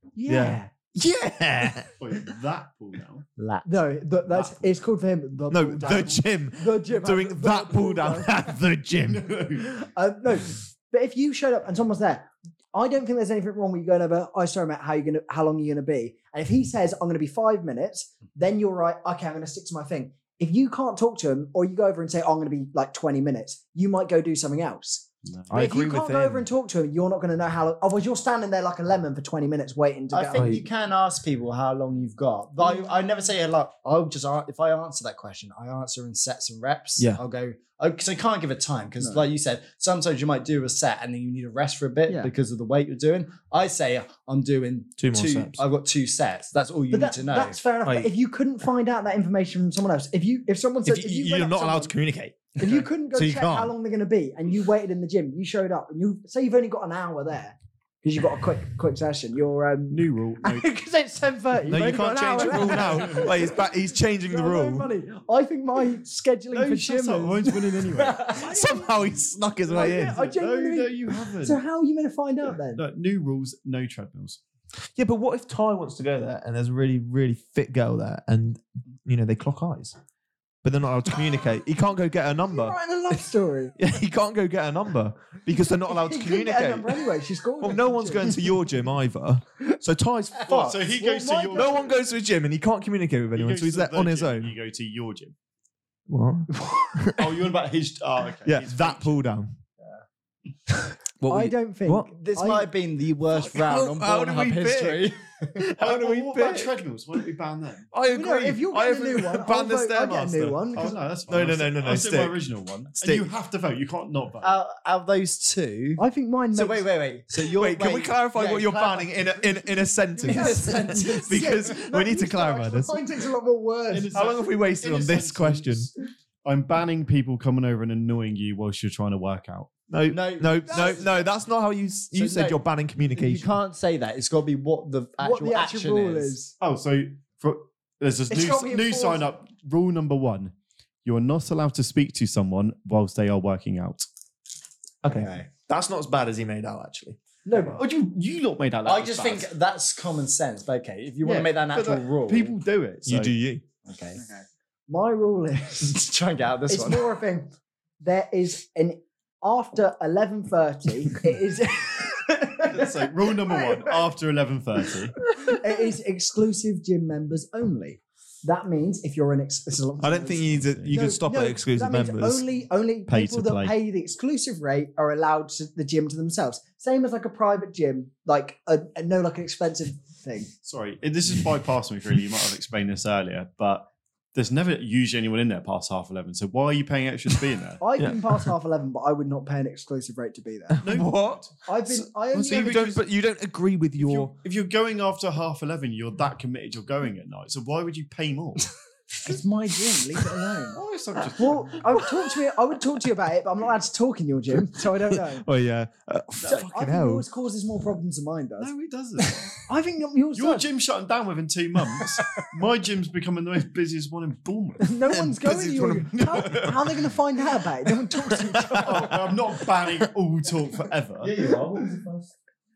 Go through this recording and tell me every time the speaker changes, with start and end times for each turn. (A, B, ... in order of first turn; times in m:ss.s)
0:00.2-0:00.7 A
0:00.3-0:01.9 B
0:02.0-0:03.3 C
0:03.4-0:03.7 D
0:03.6-0:08.6 A
0:05.5-0:09.3 B
0:05.8-0:06.2 C
0:09.1-0:09.7 C
0:09.6-0:30.6 A
0:25.2-0:25.6 C
0:25.5-0:26.5 B
0:30.1-0:47.6 D
0:30.4-0:30.6 B
0:39.0-0:39.2 A
0:45.0-0:45.6 B
0:46.9-0:51.9 A
0:47.8-0:48.1 B
0:50.8-0:52.5 B
0:52.6-1:07.7 A
0:53.1-0:53.4 B
0:59.9-1:00.7 C
1:01.7-1:04.9 B
1:02.3-1:03.4 C
1:06.5-1:08.4 C
1:08.0-1:08.4 D
1:08.3-1:12.8 A
1:08.4-1:10.2 B
1:09.7-1:11.6 C
1:12.8-1:14.4 C
1:15.0-1:20.0 B
1:20.6-1:22.8 B
1:22.5-1:23.7 A
1:23.8-1:27.0 B
1:25.8-1:28.4 A
1:27.6-1:30.5 B
1:30.4-1:30.8 D
1:30.5-1:32.0 C
1:30.9-1:31.9 A
1:31.5-1:34.5 B
1:33.4-1:35.4 C
1:36.1-1:37.3 B
1:37.2-1:39.2 C
1:38.5-1:39.6 B
1:41.2-1:42.1 B
1:41.3-1:42.7 A
1:42.1-1:45.6 D
1:43.3-1:46.7 B
1:45.8-1:47.9 C
1:47.9-1:52.4 B
1:48.1-1:51.0 A
1:50.7-1:54.6 C
1:53.0-1:53.3 B
1:54.4-1:56.0 D
1:56.0-1:56.9 A
1:56.5-1:59.5 D
1:57.4-2:03.0 B
2:00.2-2:01.6 D
2:00.2-2:04.2 A
2:03.9-2:05.9 C
2:04.1-2:05.9 B
2:06.4-2:09.7 C
2:09.9-2:13.5 B
2:10.1-2:11.3 D
2:10.7-2:11.0 A
2:12.2-2:12.6 D
2:13.1-2:16.4 D
2:15.2-2:16.5 A
2:16.6-2:20.5 C
2:18.3-2:19.3 A
2:21.0-2:24.1 C
2:25.0-2:27.2 B
2:25.0-2:25.5 D
2:27.5-2:27.8 A
2:27.8-2:29.5 C
2:28.8-2:32.6 D
2:31.2-2:33.3 C
2:33.1-2:33.6 B
2:33.8-2:34.2 D
2:34.2-2:36.0 A
2:35.8-2:37.1 D
2:36.7-2:44.0 A
2:42.6-2:45.2 C
2:45.3-3:00.5 A
2:50.0-2:52.4 B
2:50.6-2:50.9 C
2:53.1-2:53.8 C
3:00.6-3:07.8 C
3:07.8-3:10.8 A
3:08.0-3:08.2 B
3:10.8-3:11.6 C
3:10.8-3:11.5 B
3:11.7-3:12.9 A
3:12.3-3:13.0 C
3:12.3-3:14.4 B
3:14.0-3:18.7 C
3:19.2-3:20.8 A
3:20.7-3:22.1 C
3:21.4-3:25.5 A
3:25.1-3:27.2 B
3:26.4-3:30.7 A
3:28.6-3:29.6 C
3:30.4-3:34.9 C
3:34.8-3:39.3 A
3:35.1-3:37.1 B
3:38.2-3:39.2 B
3:38.8-3:41.3 C
3:41.2-3:42.3 B